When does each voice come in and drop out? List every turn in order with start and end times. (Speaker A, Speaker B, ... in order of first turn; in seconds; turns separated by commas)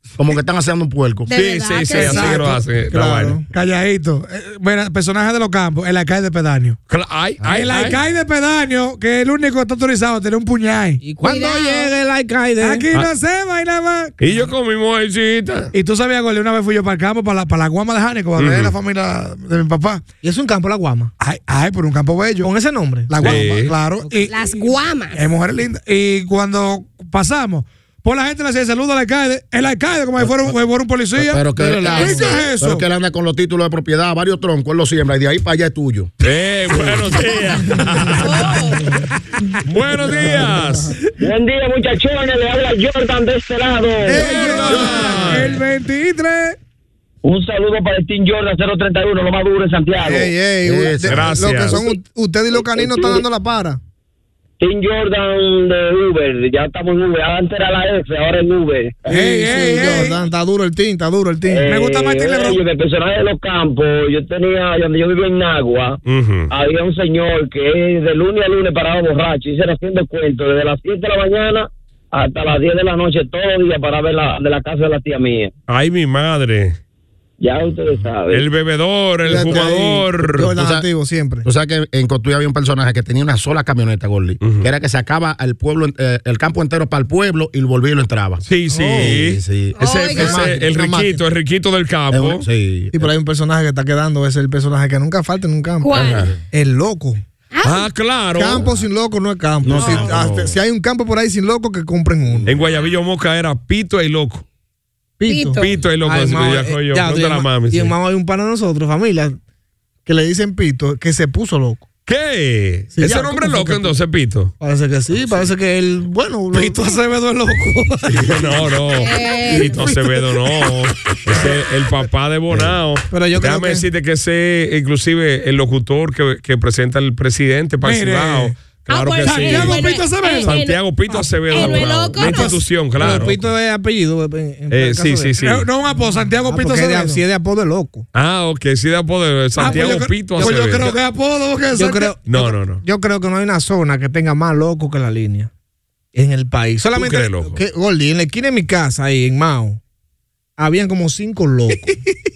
Speaker A: 0.2-1.3, Speaker B: 1.3-2.4, Speaker C: 1.3-3.4, Speaker D: 1.9-2.7, Speaker E: 2.9-3.5, Speaker D: 3.5-6.8, Speaker C: 6.9-8.0, Speaker A: 7.4-7.8, Speaker D: 7.4-11.0, Speaker E: 11.0-12.9, Speaker B: 11.2-11.9, Speaker D: 12.6-14.4, Speaker C: 14.2-15.7, Speaker D: 15.7-20.0, Speaker C: 18.4-18.7, Speaker E: 20.2-21.1, Speaker D: 21.2-22.5, Speaker E: 22.4-23.4, Speaker D: 23.1-24.3, Speaker C: 23.2-23.8, Speaker B: 24.3-25.2, Speaker D: 25.1-32.9, Speaker A: 30.2-30.5, Speaker A: 31.2-36.1, Speaker B: 31.9-32.5, Speaker C: 36.2-38.6, Speaker A: 36.7-37.2, Speaker B: 38.2-38.9, Speaker C: 39.6-41.0, Speaker E: 40.2-40.9, Speaker F: 41.2-44.4, Speaker D: 44.1-46.6, Speaker E: 44.2-44.8, Speaker B: 44.2-44.6, Speaker C: 44.5-45.6, Speaker F: 47.2-50.3, Speaker E: 50.0-53.8, Speaker A: 50.6-51.8, Speaker C: 51.1-51.8, Speaker F: 52.7-53.2, Speaker F: 54.6-60.0, Speaker D: 59.1-60.2, Speaker E: 59.1-61.7, Speaker F: 61.5-66.0, Speaker D: 61.7-62.6, Speaker C: 66.1-66.5, Speaker F: 66.5-75.5, Speaker C: 75.7-76.8, Speaker F: 77.4-78.5, Speaker A: 77.6-78.1, Speaker C: 78.3-80.5, Speaker E: 79.2-81.5, Speaker A: 80.6-80.9, Speaker A: 81.4-90.7, Speaker C: 84.4-84.7, Speaker C: 88.4-92.5, Speaker E: 88.7-89.2, Speaker B: 89.8-90.5, Speaker E: 90.1-91.2, Speaker A: 92.1-93.1, Speaker E: 92.9-96.0, Speaker B: 95.8-96.3, Speaker C: 95.9-96.3, Speaker A: 96.0-96.4, Speaker E: 96.5-97.2, Speaker B: 97.5-97.9, Speaker C: 97.6-98.7, Speaker E: 98.4-102.5, Speaker A: 98.6-98.8, Speaker A: 99.6-100.5, Speaker B: 99.8-100.1, Speaker A: 102.3-102.6, Speaker C: 102.5-104.5, Speaker E: 105.2-109.4, Speaker B: 105.3-105.7, Speaker C: 105.6-107.9, Speaker E: 110.1-111.8, Speaker C: 112.1-114.5, Speaker E: 113.0-113.9, Speaker E: 114.6-117.0, Speaker D: 116.5-118.5, Speaker C: 118.2-133.5, Speaker B: 119.0-119.8, Speaker D: 119.5-120.8, Speaker A: 122.5-122.8, Speaker E: 123.1-123.9, Speaker D: 127.8-128.6, Speaker B: 128.9-130.8, Speaker D: 129.2-130.6, Speaker D: 131.2-132.4, Speaker B: 131.5-132.6, Speaker E: 132.2-135.3, Speaker D: 133.0-133.3, Speaker C: 134.7-135.7, Speaker D: 135.4-137.2, Speaker E: 135.9-138.1, Speaker C: 138.1-141.0, Speaker D: 139.6-142.1, Speaker E: 139.6-140.9, Speaker E: 141.8-145.5, Speaker C: 142.3-142.8, Speaker E: 146.1-149.8, Speaker C: 146.9-147.6, Speaker E: 150.6-152.0